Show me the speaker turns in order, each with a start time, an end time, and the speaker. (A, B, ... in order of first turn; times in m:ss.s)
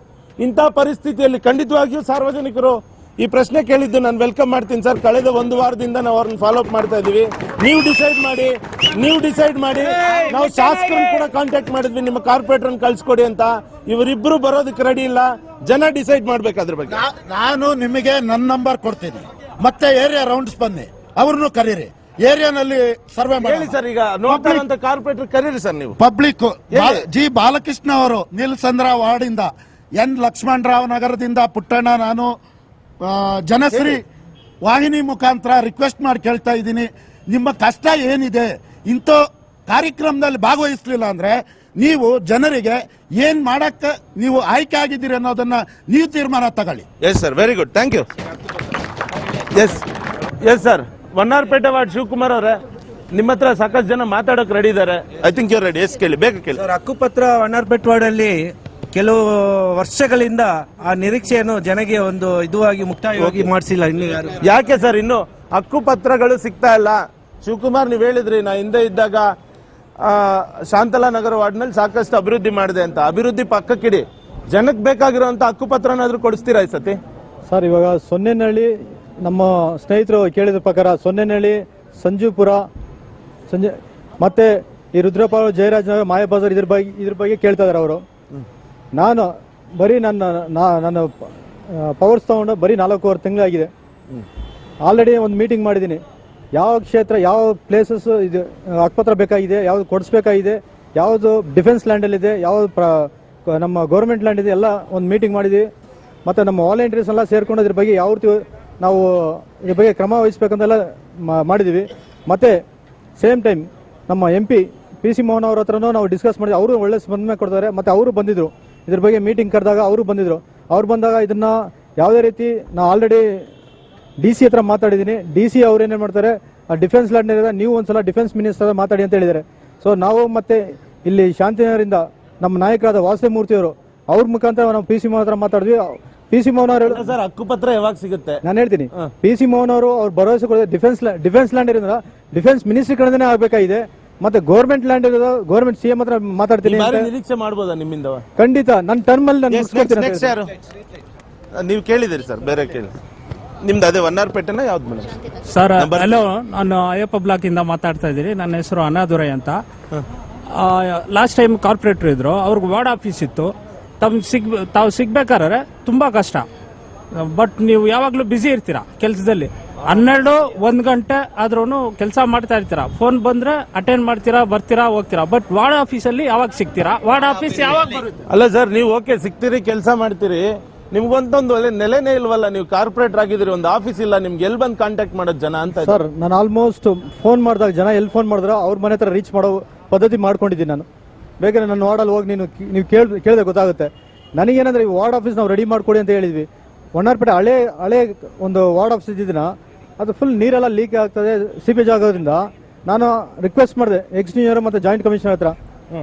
0:00.4-0:17.0 A
0:16.9-0:24.6 B
0:23.4-0:26.0 A
0:26.0-0:32.3 B
0:26.7-0:27.0 A
0:33.0-0:34.0 B
0:34.6-0:46.8 B
0:47.0-0:48.0 A
0:49.5-0:49.8 A
0:50.4-0:52.6 A
0:53.1-0:56.6 A
0:56.5-1:04.4 C
1:03.2-1:03.5 A
1:04.4-1:09.3 A
1:10.0-1:17.0 A
1:17.5-1:22.6 D
1:23.5-1:28.0 D
1:29.0-1:33.7 D
1:34.8-1:36.0 D
1:36.5-1:45.7 D
1:46.2-1:52.6 D
1:53.2-2:03.4 D
2:04.2-2:17.1 D
2:16.8-2:18.4 A
2:18.4-2:27.1 D
2:26.6-2:28.2 A
2:28.4-2:30.3 D
2:29.5-2:30.5 A
2:31.6-2:32.9 A
2:33.6-2:35.1 A
2:35.5-2:39.6 E
2:35.8-2:36.1 A
2:40.5-2:46.4 E
2:47.2-2:58.2 E
2:58.3-3:06.0 A
3:05.8-3:10.8 D
3:11.4-3:25.6 D